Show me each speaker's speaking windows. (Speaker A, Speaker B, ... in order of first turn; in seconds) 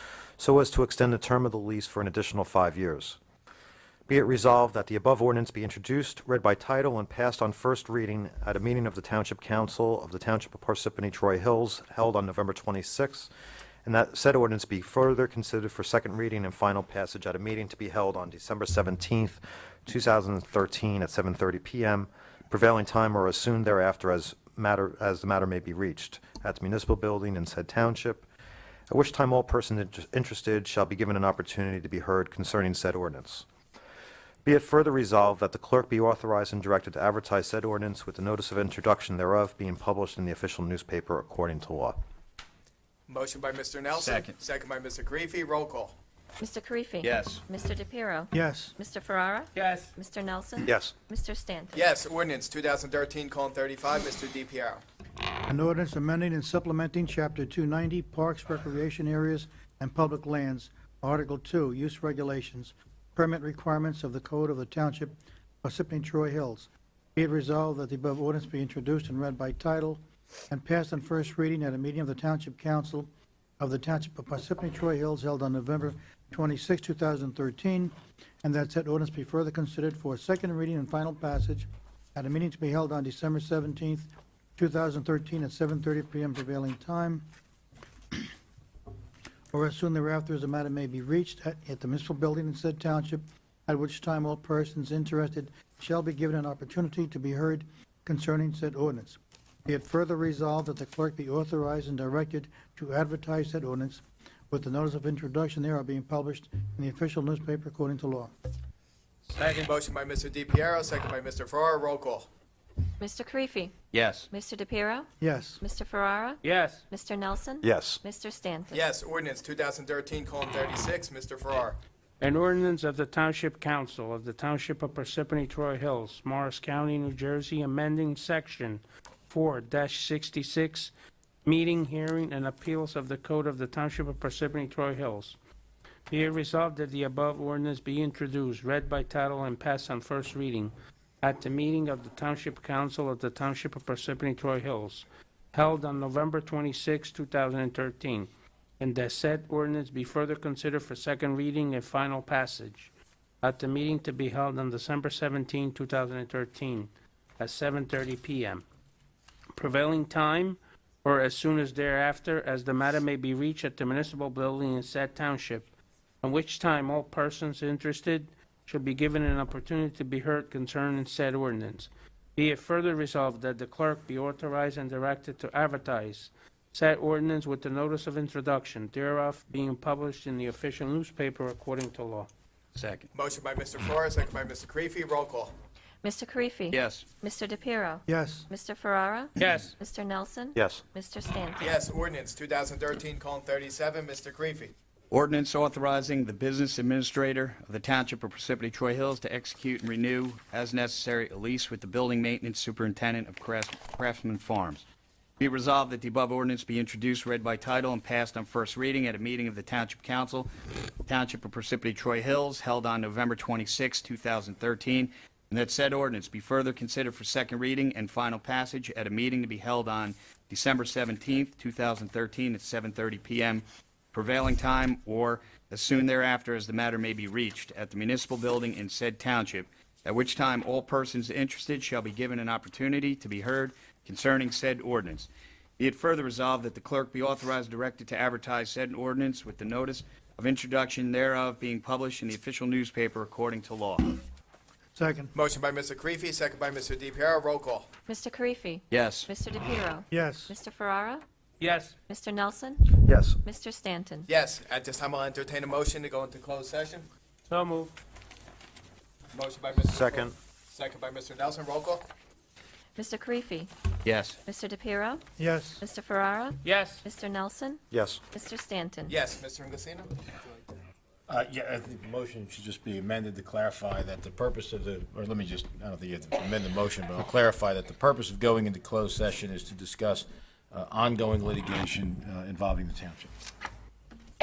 Speaker A: 0.4-3.2, 4.1-13.3, 13.8-28.2, 28.9-33.4, 34.4-42.0, 50.6-50.9, 117.6-118.0, 190.6-190.8, 253.0-253.4, 259.8-260.3, 267.9-268.2
Speaker B: 43.1-45.9, 51.7-54.8, 109.6-112.3, 118.7-121.8, 183.2-185.5, 191.6-194.7, 245.3-247.9, 254.3-257.1, 259.3-262.1, 269.1-270.2
Speaker C: 43.9-44.4, 47.0-47.4, 113.9-114.3, 182.7-183.1, 186.7-187.0, 195.1-204.8, 205.4-210.5, 211.1-235.3, 235.8-244.2, 248.9-249.3, 264.0-264.4
Speaker D: 46.4-51.8, 113.0-113.7, 114.3-115.1, 115.6-118.8, 186.0-191.7, 248.1-251.2, 252.1-254.3, 262.9-263.7, 264.4-265.2, 265.8-269.1
Speaker E: 48.4-48.7, 55.5-73.1, 73.6-77.9, 78.4-87.2, 89.5-108.3, 245.0-245.3, 265.4-265.6
Speaker F: 49.5-49.9, 109.3-109.7, 116.4-116.8, 122.2-130.9, 131.4-135.3, 136.1-148.3, 148.8-152.9, 153.4-158.6, 159.6-165.7, 166.2-182.3, 189.4-189.8, 251.6-251.9, 257.5-257.9, 266.6-267.0
Speaker G: 271.3-283.3